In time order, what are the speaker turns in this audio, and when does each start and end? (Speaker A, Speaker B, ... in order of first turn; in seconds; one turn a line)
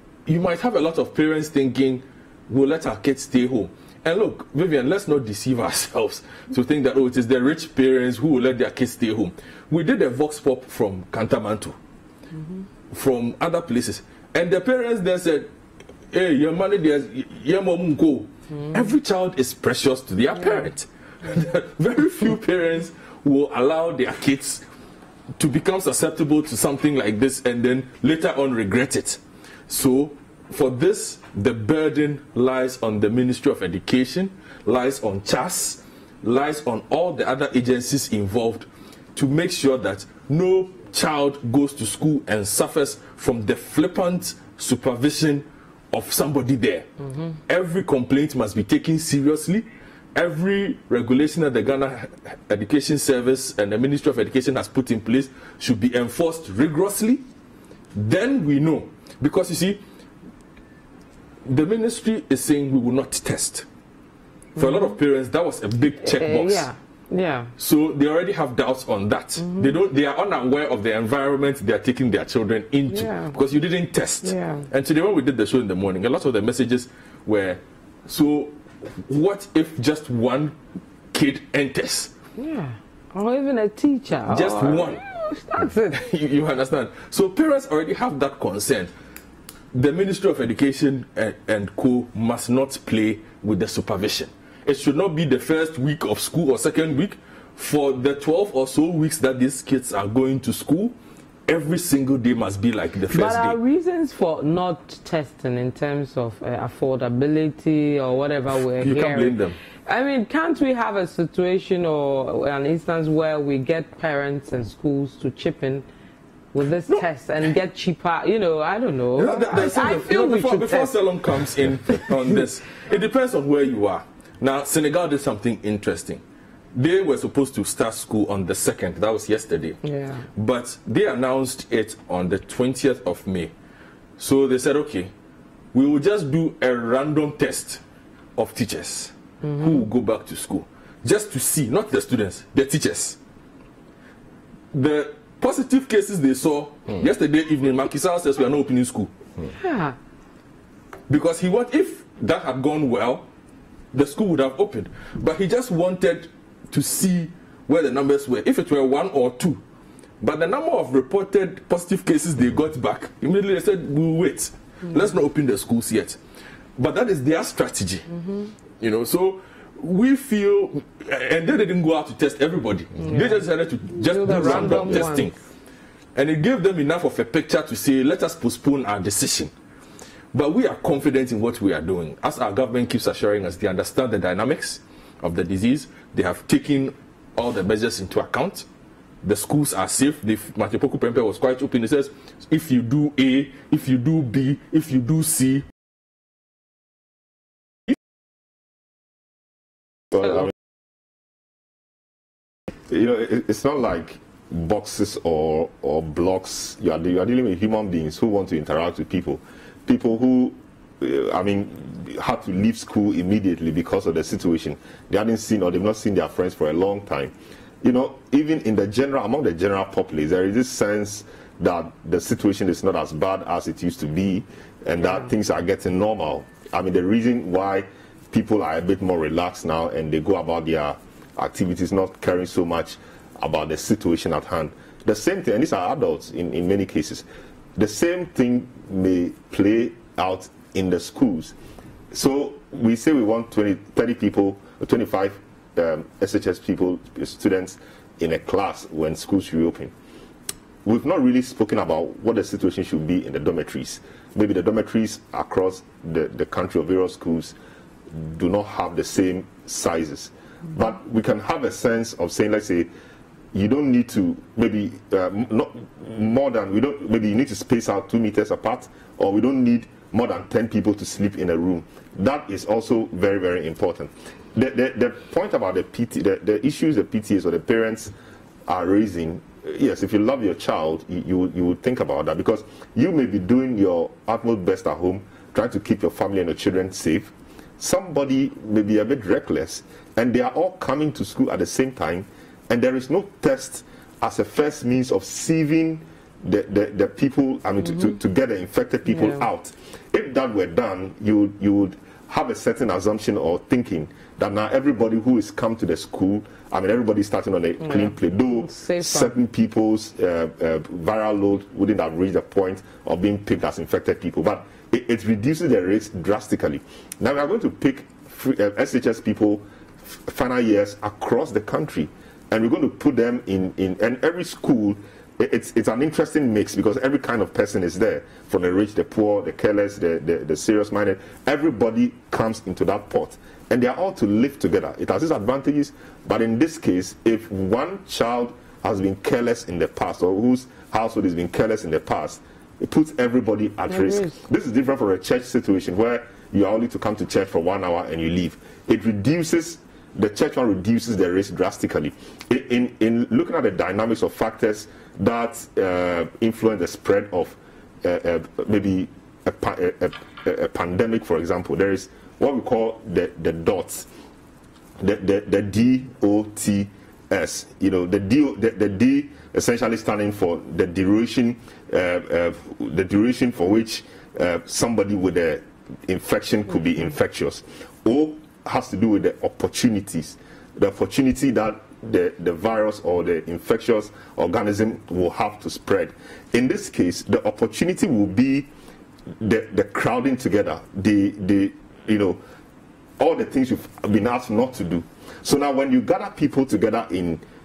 Speaker A: 0.3-11.8
Speaker A: 12.9-15.5
Speaker A: 16.1-24.6
Speaker A: 25.4-46.9
Speaker A: 47.5-57.2
Speaker A: 58.0-59.8
Speaker A: 61.5-63.7
Speaker A: 64.6-66.7
Speaker B: 64.6-64.8
Speaker B: 66.0-67.5
Speaker A: 67.6-80.5
Speaker B: 69.4-69.8
Speaker B: 72.9-73.3
Speaker B: 74.2-74.7
Speaker A: 81.1-82.1
Speaker B: 82.4-86.0
Speaker A: 84.3-85.0
Speaker A: 85.9-88.9
Speaker A: 89.7-101.0
Speaker A: 101.5-103.6
Speaker B: 103.1-115.8
Speaker A: 108.8-109.6
Speaker B: 116.5-121.0
Speaker A: 119.2-126.2
Speaker A: 126.7-129.8
Speaker B: 129.8-130.3
Speaker A: 130.4-133.5
Speaker A: 134.2-135.1
Speaker A: 135.7-137.8
Speaker A: 138.4-143.2
Speaker B: 139.4-139.7
Speaker A: 144.7-149.1
Speaker B: 149.5-150.0
Speaker A: 151.1-153.3
Speaker A: 153.9-159.6
Speaker A: 160.2-166.2
Speaker A: 166.8-168.1
Speaker A: 168.8-175.3
Speaker B: 173.0-173.4
Speaker B: 174.0-175.3
Speaker A: 176.2-179.5
Speaker A: 180.3-188.7
Speaker A: 189.2-195.7
Speaker C: 202.9-241.6
Speaker C: 242.1-249.9
Speaker C: 250.8-257.6
Speaker C: 258.1-262.9
Speaker C: 263.5-278.1
Speaker C: 278.7-364.1
Speaker B: 307.9-309.3
Speaker B: 343.9-344.4
Speaker C: 365.0-388.7
Speaker C: 389.4-392.4
Speaker C: 393.2-397.4